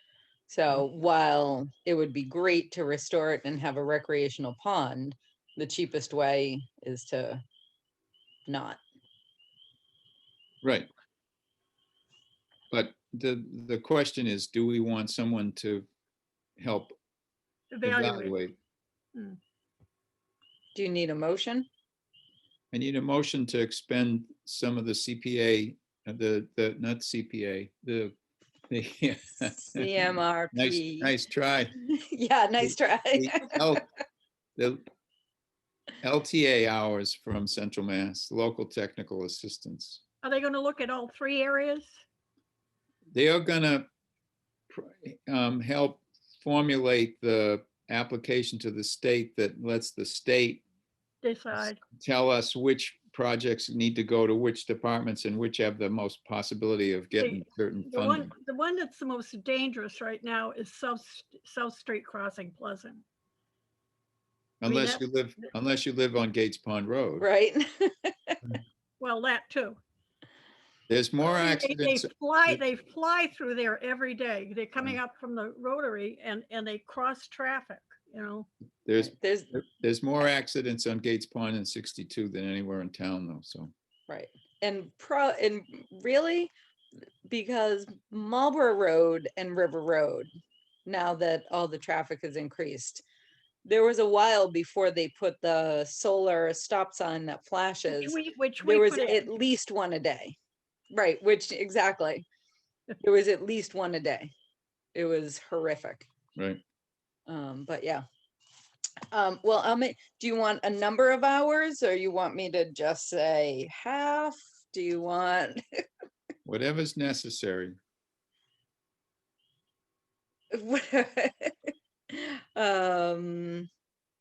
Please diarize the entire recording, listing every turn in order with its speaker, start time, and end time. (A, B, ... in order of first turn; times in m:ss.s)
0:00.5-0:07.4 A
0:08.5-0:08.8 A
0:10.6-0:10.9 B
0:12.7-0:15.8 B
0:16.6-0:16.9 B
0:17.7-0:18.4 C
0:17.8-0:18.5 B
0:20.7-0:21.7 A
0:22.7-0:28.1 B
0:28.7-0:31.7 B
0:29.7-0:31.1 A
0:31.8-0:33.8 A
0:32.6-0:33.8 B
0:34.6-0:34.8 B
0:36.0-0:40.0 B
0:40.2-0:42.0 C
0:43.1-0:43.8 B
0:44.7-0:50.6 B
0:51.2-0:51.8 C
0:52.0-0:58.3 B
0:57.2-1:03.0 C
1:04.6-1:07.2 B
1:04.6-1:05.0 C
1:07.2-1:08.4 A
1:09.0-1:09.8 C
1:10.9-1:12.5 B
1:11.2-1:18.5 C
1:18.8-1:23.7 B
1:19.0-1:19.5 A
1:24.1-1:26.5 A
1:27.2-1:30.3 A
1:30.8-1:33.0 A
1:33.6-1:40.4 A
1:37.9-1:39.2 C
1:40.9-1:42.2 A
1:43.0-1:44.3 A
1:44.9-1:46.0 A
1:46.4-1:46.6 B
1:47.3-1:48.0 A
1:49.1-1:55.6 A
1:56.4-1:57.8 B
2:00.5-2:03.7 A